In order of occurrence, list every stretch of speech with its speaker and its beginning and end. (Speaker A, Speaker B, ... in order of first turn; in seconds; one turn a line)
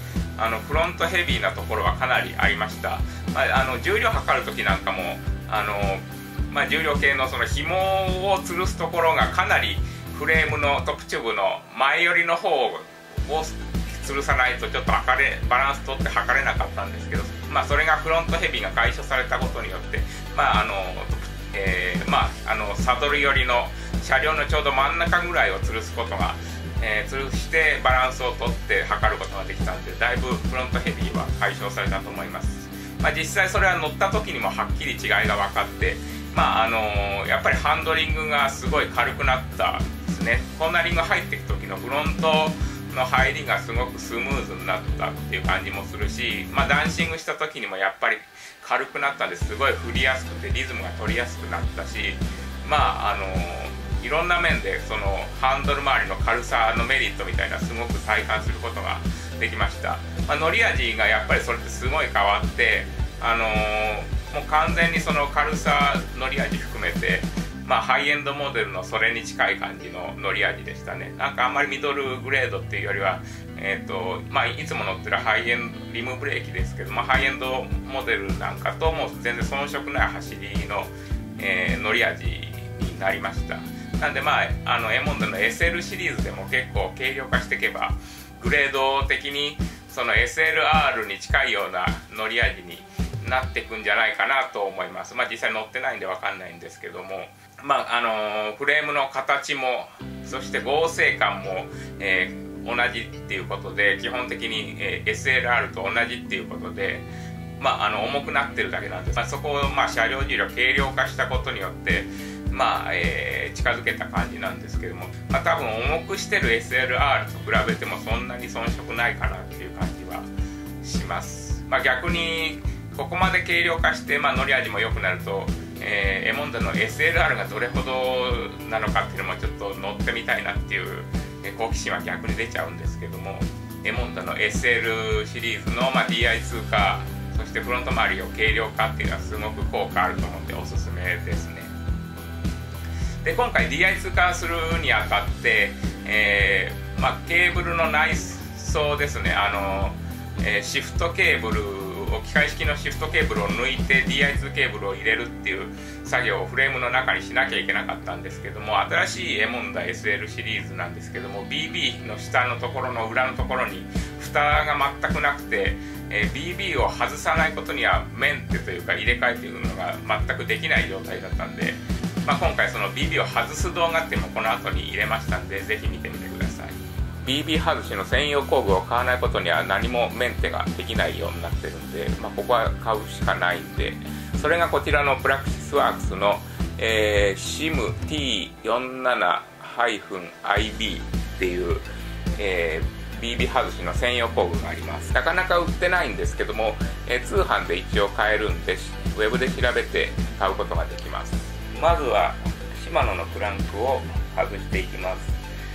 Speaker A: 0.4-120.3
Speaker A: 120.8-141.7
Speaker A: 143.2-191.8
Speaker A: 192.4-205.4